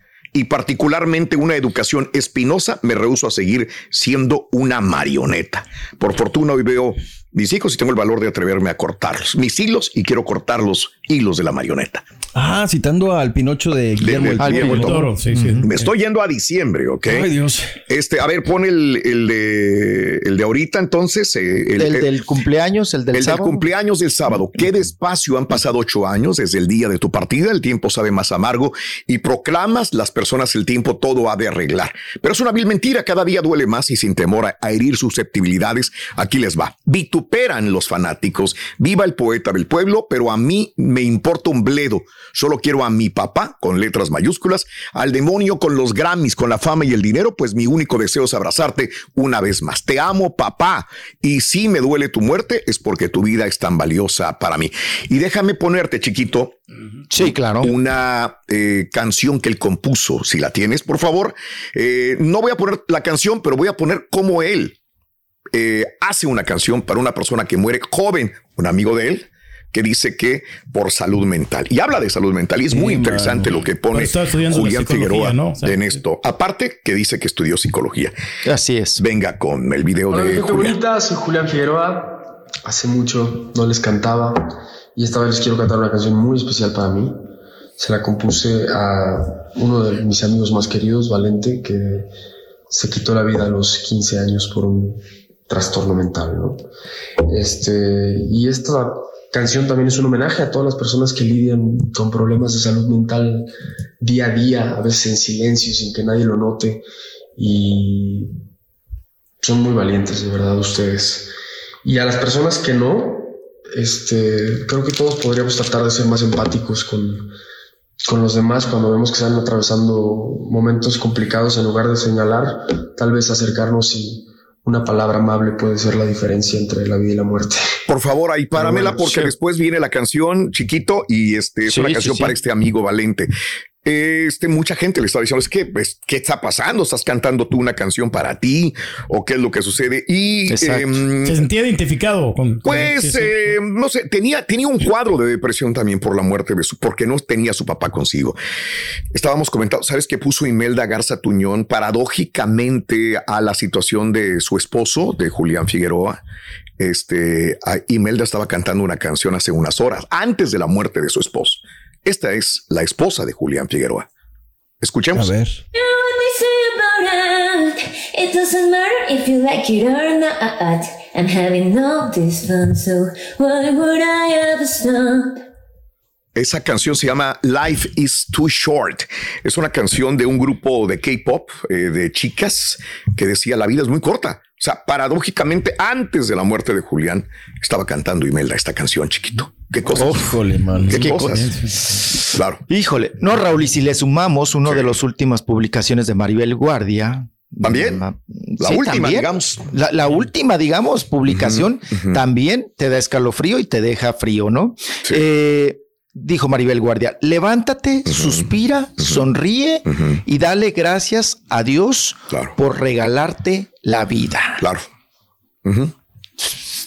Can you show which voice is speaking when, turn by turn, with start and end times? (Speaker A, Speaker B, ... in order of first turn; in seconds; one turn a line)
Speaker A: 0.3-12.0
Speaker B: 12.3-15.6
Speaker A: 14.0-15.0
Speaker C: 14.4-15.0
Speaker D: 14.6-15.9
Speaker A: 15.6-17.3
Speaker B: 17.1-17.7
Speaker A: 17.9-22.1
Speaker C: 21.8-23.6
Speaker A: 23.1-56.6
Speaker C: 57.1-57.7
Speaker A: 57.2-64.8
Speaker A: 65.5-78.1
Speaker B: 72.7-73.6
Speaker D: 73.9-75.8
Speaker C: 78.4-79.0
Speaker A: 79.0-80.8
Speaker E: 80.1-84.3
Speaker E: 85.0-87.1
Speaker E: 87.8-92.1
Speaker E: 92.7-96.6
Speaker E: 97.3-103.5
Speaker E: 104.0-106.8
Speaker E: 107.4-108.3
Speaker E: 109.4-111.3
Speaker E: 111.8-117.2
Speaker E: 118.1-127.6
Speaker A: 127.9-133.3
Speaker C: 132.0-132.3
Speaker A: 133.8-141.4
Speaker C: 140.5-141.0
Speaker D: 141.2-143.5
Speaker A: 142.6-148.4
Speaker A: 149.1-156.2
Speaker A: 156.8-164.1
Speaker A: 164.8-165.3
Speaker B: 165.1-165.6
Speaker F: 165.7-175.4
Speaker A: 176.3-191.6
Speaker B: 189.9-191.9
Speaker A: 192.3-192.6
Speaker C: 192.7-214.6
Speaker A: 194.7-194.9
Speaker A: 197.6-198.0
Speaker A: 198.6-199.7
Speaker A: 201.4-201.6
Speaker A: 208.1-208.3
Speaker A: 214.6-214.8
Speaker A: 215.6-215.9